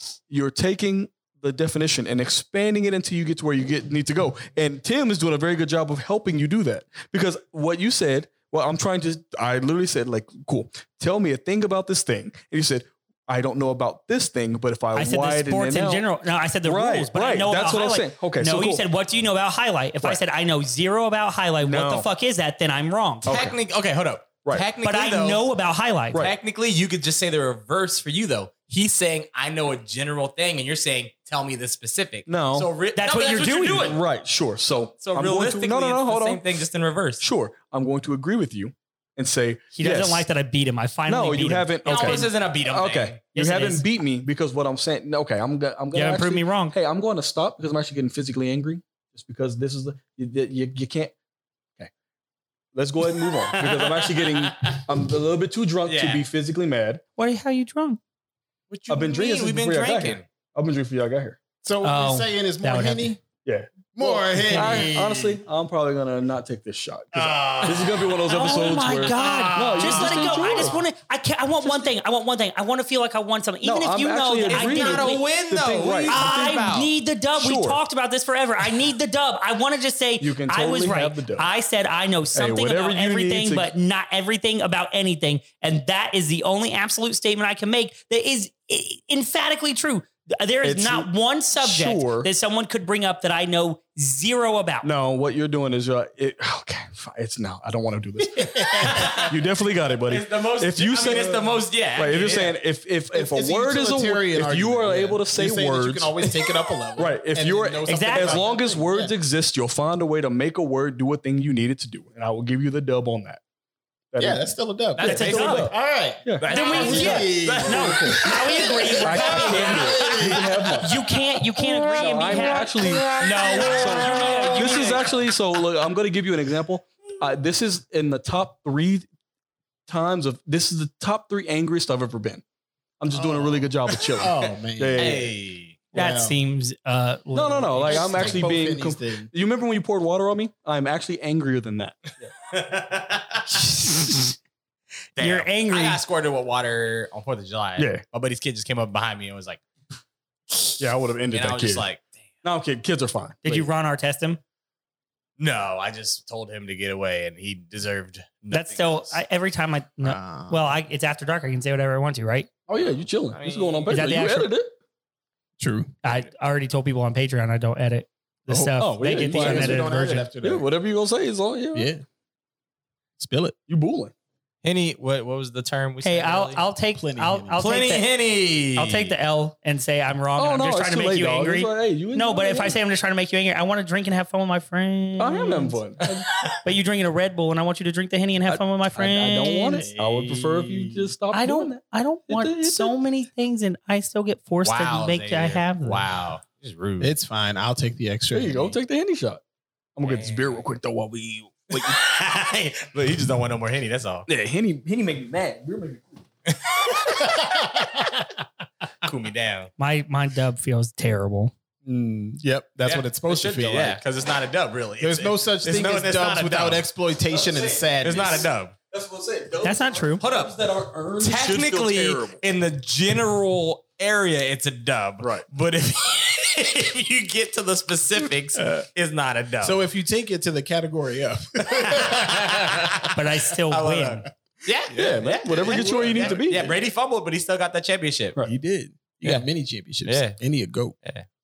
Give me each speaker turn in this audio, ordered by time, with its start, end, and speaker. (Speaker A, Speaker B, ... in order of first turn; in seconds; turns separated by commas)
Speaker A: 0.3-16.1, Speaker B: 14.9-23.3, Speaker A: 16.6-18.8, Speaker A: 21.6-22.1, Speaker A: 23.2-23.6, Speaker C: 23.3-25.4, Speaker B: 24.8-26.2, Speaker C: 26.1-34.0, Speaker A: 32.3-32.7, Speaker B: 33.0-34.0, Speaker A: 33.7-36.4, Speaker C: 35.0-37.2, Speaker A: 37.2-40.3, Speaker B: 39.8-42.3, Speaker A: 41.1-51.1, Speaker C: 41.8-43.2, Speaker B: 43.3-43.8, Speaker B: 45.9-46.8, Speaker A: 52.7-57.0, Speaker C: 53.5-54.8, Speaker C: 55.9-56.2, Speaker B: 57.2-58.0, Speaker C: 58.7-60.2, Speaker A: 58.9-61.4, Speaker D: 61.6-63.2, Speaker B: 61.8-63.1, Speaker A: 63.4-70.8, Speaker D: 63.9-65.4, Speaker C: 67.1-70.7, Speaker B: 68.3-75.2, Speaker A: 73.6-76.6, Speaker C: 74.5-76.9, Speaker B: 76.1-94.9, Speaker A: 77.3-77.8, Speaker A: 80.2-81.5, Speaker A: 82.3-83.7, Speaker A: 90.6-92.3, Speaker A: 94.8-106.2, Speaker D: 98.4-99.2, Speaker C: 98.8-99.3, Speaker C: 100.1-102.6, Speaker D: 101.0-101.4, Speaker D: 103.1-109.1, Speaker A: 107.0-113.4, Speaker B: 107.9-108.4, Speaker A: 114.1-114.5, Speaker D: 114.2-120.9, Speaker C: 115.0-115.7, Speaker B: 115.0-115.7, Speaker A: 115.0-115.7, Speaker A: 116.2-118.2, Speaker C: 116.4-117.5, Speaker B: 116.5-119.9, Speaker A: 119.0-121.0, Speaker C: 119.2-120.3, Speaker B: 120.8-125.1, Speaker A: 121.7-129.1, Speaker A: 129.9-132.4, Speaker A: 133.0-135.3, Speaker D: 133.2-135.2, Speaker C: 134.9-135.8, Speaker D: 135.9-136.3, Speaker B: 135.9-138.4, Speaker A: 137.3-142.3, Speaker D: 137.9-139.3, Speaker C: 142.5-143.9, Speaker B: 143.5-144.3, Speaker C: 145.2-149.6, Speaker B: 145.2-146.0, Speaker A: 147.8-148.0, Speaker A: 150.8-151.8, Speaker C: 151.3-152.0, Speaker A: 152.4-153.7, Speaker B: 153.4-154.4, Speaker C: 155.4-159.2, Speaker B: 158.5-162.5, Speaker D: 160.0-160.6, Speaker A: 162.7-164.7, Speaker C: 163.3-163.9, Speaker B: 163.9-164.5, Speaker D: 165.6-165.9, Speaker B: 166.0-170.2, Speaker D: 168.5-170.7, Speaker A: 168.7-171.9, Speaker D: 171.7-172.0, Speaker D: 173.2-173.6, Speaker A: 173.7-174.1, Speaker C: 174.6-176.6, Speaker B: 176.0-178.1, Speaker D: 176.9-177.7, Speaker C: 177.5-179.1, Speaker B: 178.8-185.8, Speaker A: 180.4-182.8, Speaker A: 185.2-186.2, Speaker B: 186.6-189.9, Speaker A: 188.5-192.9, Speaker D: 190.0-191.0, Speaker B: 191.3-196.0, Speaker C: 194.6-197.1, Speaker D: 197.0-198.8, Speaker A: 198.3-199.4, Speaker A: 199.9-201.9, Speaker C: 200.0-200.6, Speaker C: 201.7-204.3, Speaker A: 204.3-206.2, Speaker C: 206.5-207.3, Speaker D: 207.3-207.8, Speaker C: 209.0-209.7, Speaker B: 209.8-211.5, Speaker D: 211.8-214.0, Speaker C: 212.8-216.9, Speaker D: 215.0-218.5, Speaker A: 217.3-217.8, Speaker C: 217.6-218.7, Speaker A: 218.9-222.4, Speaker B: 219.6-220.2, Speaker C: 220.2-220.6, Speaker C: 221.2-229.8, Speaker D: 228.6-228.8, Speaker D: 229.6-233.1, Speaker C: 231.6-238.4, Speaker B: 233.1-234.3, Speaker D: 234.9-236.8, Speaker A: 234.9-236.7, Speaker D: 238.4-240.9, Speaker C: 240.0-240.4